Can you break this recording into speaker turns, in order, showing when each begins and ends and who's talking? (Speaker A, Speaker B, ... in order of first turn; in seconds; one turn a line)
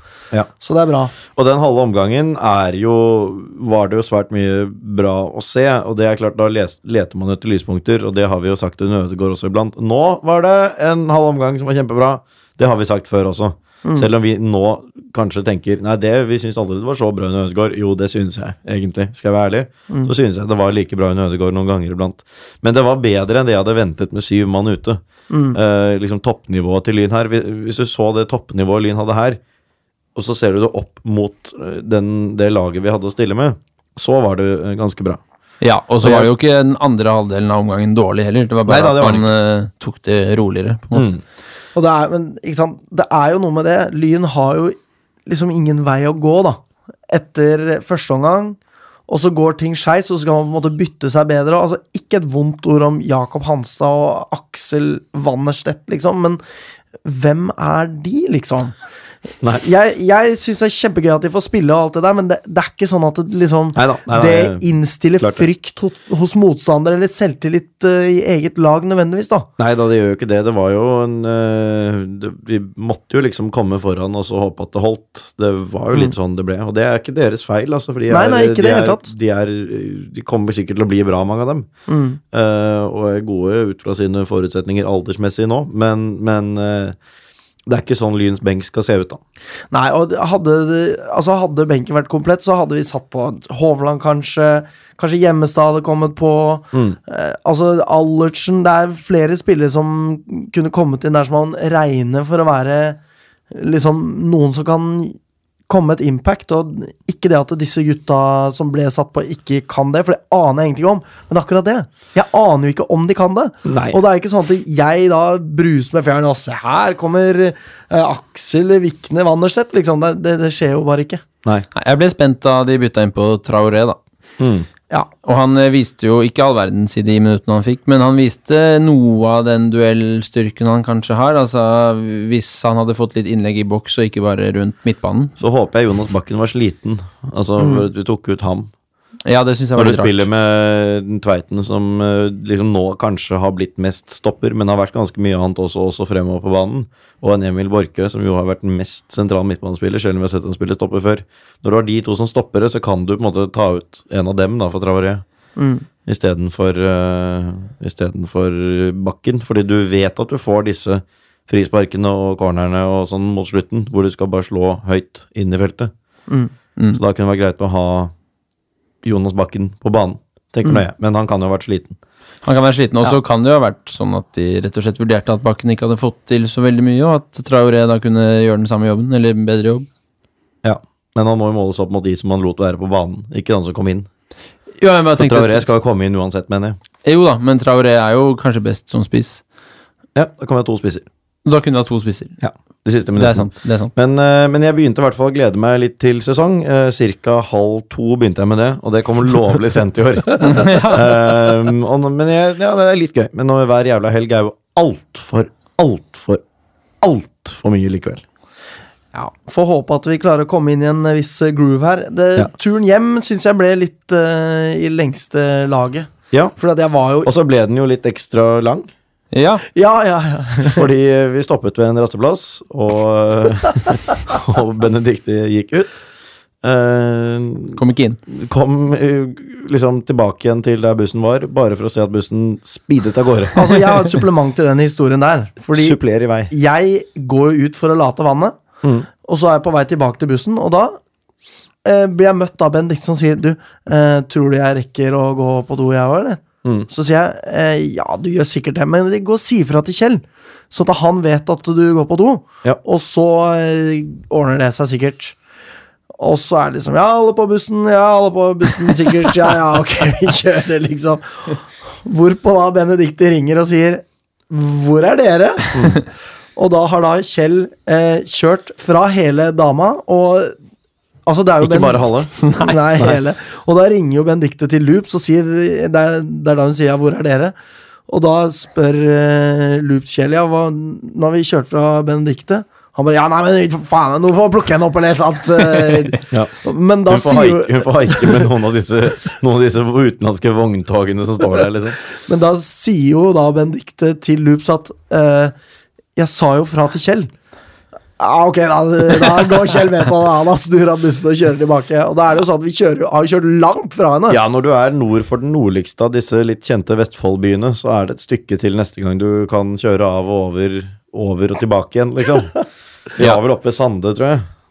Speaker A: 0.6-1.1
Speaker B: 1.3-25.0
Speaker A: 25.3-25.6
Speaker B: 25.5-29.4
Speaker B: 30.1-35.2
Speaker C: 35.6-41.1
Speaker B: 36.0-36.3
Speaker B: 38.6-39.2
Speaker B: 40.9-41.2
Speaker A: 41.7-48.6
Speaker A: 49.1-56.4
Speaker A: 57.0-58.7
Speaker A: 59.5-69.5
Speaker B: 63.7-64.7
Speaker B: 65.2-65.5
Speaker B: 69.6-81.7
Speaker A: 78.1-79.1
Speaker A: 81.9-82.2
Speaker B: 82.3-87.0
Speaker B: 87.7-89.2
Speaker A: 89.7-103.0
Speaker B: 96.7-97.0
Speaker A: 103.5-105.2
Speaker A: 105.7-121.2
Speaker B: 113.6-114.0
Speaker C: 121.7-124.0
Speaker B: 124.4-124.7
Speaker C: 125.2-135.3
Speaker B: 135.4-138.7
Speaker C: 139.2-140.2
Speaker B: 139.7-155.2
Speaker A: 155.6-155.8
Speaker B: 156.1-165.9
Speaker B: 166.9-168.1
Speaker B: 169.0-172.0
Speaker C: 172.4-179.9
Speaker B: 180.6-184.1
Speaker C: 184.8-185.7
Speaker B: 185.2-186.8
Speaker C: 187.0-189.4
Speaker B: 190.1-191.1
Speaker C: 191.4-192.3
Speaker B: 192.4-206.4
Speaker C: 193.2-193.9
Speaker C: 200.4-201.0
Speaker B: 207.0-208.2
Speaker A: 209.1-217.3
Speaker B: 217.2-218.9
Speaker C: 219.3-219.6
Speaker A: 219.7-220.8
Speaker B: 220.6-226.0
Speaker B: 226.6-233.9
Speaker C: 227.8-228.2
Speaker A: 233.6-238.6
Speaker B: 235.7-236.5
Speaker A: 239.2-241.0
Speaker A: 241.8-255.3
Speaker A: 256.2-265.7
Speaker B: 265.7-266.0
Speaker A: 266.6-270.5
Speaker A: 271.2-277.5
Speaker B: 271.6-273.2
Speaker A: 278.1-288.4
Speaker B: 287.1-292.0
Speaker A: 292.2-295.5
Speaker A: 296.1-297.3
Speaker A: 298.2-304.4
Speaker B: 304.3-312.6
Speaker B: 313.2-314.4